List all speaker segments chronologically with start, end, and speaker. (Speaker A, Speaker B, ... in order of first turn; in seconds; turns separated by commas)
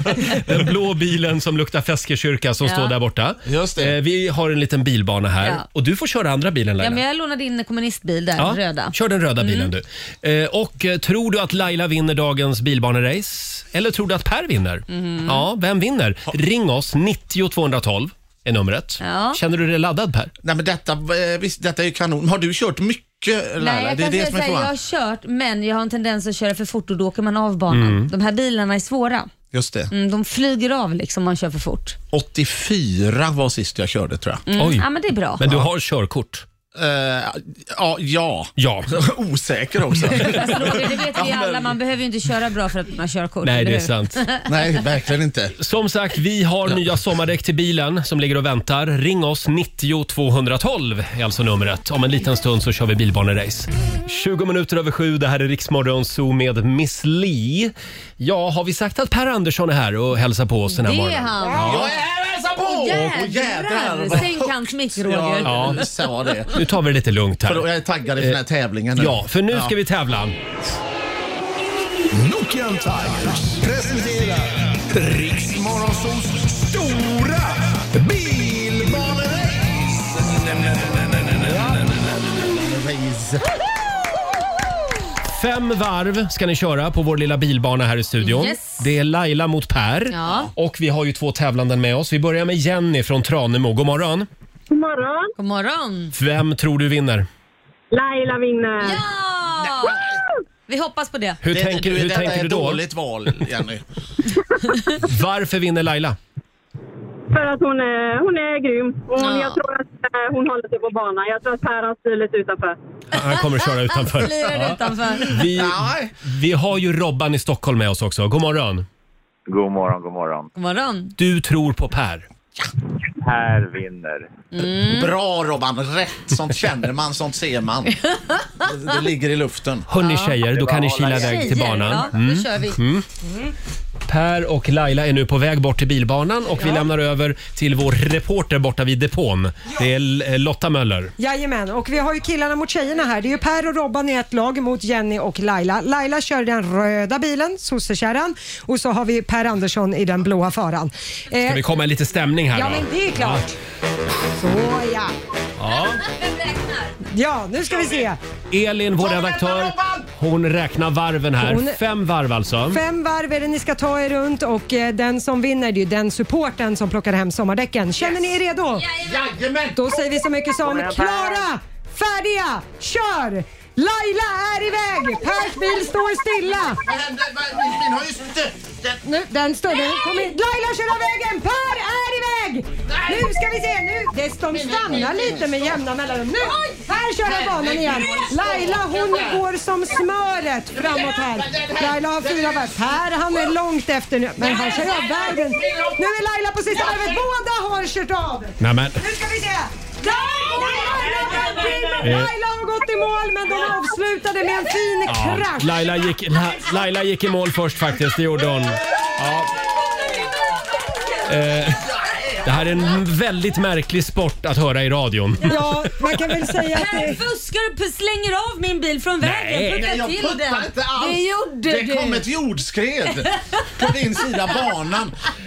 Speaker A: 0.2-7.0, Speaker B: 2.6-3.0, Speaker C: 3.5-4.0, Speaker B: 6.8-9.7, Speaker A: 8.4-20.3, Speaker B: 14.9-15.5, Speaker B: 19.0-19.4, Speaker C: 20.4-24.7, Speaker B: 23.6-29.3, Speaker A: 27.7-28.1, Speaker C: 29.5-29.9, Speaker B: 29.9-32.0, Speaker C: 32.1-34.4, Speaker B: 34.5-35.4, Speaker A: 34.5-34.9, Speaker A: 35.4-36.5, Speaker C: 36.8-41.8, Speaker A: 38.6-38.9, Speaker A: 40.0-40.6, Speaker B: 40.1-44.5, Speaker A: 43.4-44.2, Speaker C: 44.5-45.5, Speaker A: 45.6-61.9, Speaker B: 60.8-61.8, Speaker C: 61.5-66.6, Speaker B: 62.6-65.8, Speaker A: 65.4-65.9, Speaker A: 66.5-67.7, Speaker C: 67.5-69.7, Speaker A: 69.0-70.4, Speaker D: 72.1-82.0, Speaker C: 82.5-83.5, Speaker A: 85.3-94.3, Speaker B: 88.2-88.8, Speaker B: 90.1-90.5, Speaker E: 94.7-95.3, Speaker B: 95.4-96.2, Speaker A: 96.1-97.3, Speaker E: 97.9-99.0, Speaker B: 98.8-100.0, Speaker C: 99.7-100.2, Speaker B: 100.7-101.4, Speaker A: 101.4-103.3, Speaker C: 101.5-103.8, Speaker A: 105.0-106.2, Speaker E: 107.3-112.8, Speaker B: 109.2-109.6, Speaker A: 113.1-118.9, Speaker B: 113.9-115.4, Speaker C: 115.4-116.1, Speaker F: 119.5-120.5, Speaker B: 120.6-121.2, Speaker A: 121.2-122.3, Speaker F: 123.2-124.3, Speaker B: 124.5-125.1, Speaker C: 124.8-128.0, Speaker C: 128.6-129.9, Speaker A: 129.9-133.1, Speaker B: 130.0-130.4, Speaker F: 130.5-131.9, Speaker B: 131.1-132.8, Speaker A: 134.1-141.1, Speaker G: 141.2-151.6, Speaker A: 151.4-153.4, Speaker G: 152.5-153.6, Speaker G: 154.4-155.1, Speaker A: 155.6-156.0, Speaker B: 155.7-156.9, Speaker G: 157.1-158.2, Speaker A: 158.5-162.8, Speaker C: 159.0-160.1, Speaker G: 161.4-161.8, Speaker G: 162.7-168.9, Speaker B: 168.8-169.2, Speaker C: 169.0-169.8, Speaker G: 169.8-176.8, Speaker F: 170.6-171.4, Speaker C: 176.8-179.0, Speaker G: 179.0-205.8, Speaker C: 182.9-183.3, Speaker C: 184.5-185.8, Speaker C: 187.2-189.4, Speaker C: 190.7-192.9, Speaker C: 194.4-196.1, Speaker C: 196.7-197.2, Speaker A: 198.6-199.0, Speaker C: 200.5-202.0, Speaker A: 202.0-202.3, Speaker A: 205.1-209.5, Speaker A: 211.2-211.9, Speaker C: 211.6-212.7, Speaker A: 212.4-216.3, Speaker G: 215.4-217.2, Speaker B: 216.7-222.3, Speaker A: 219.2-219.9, Speaker C: 219.7-225.2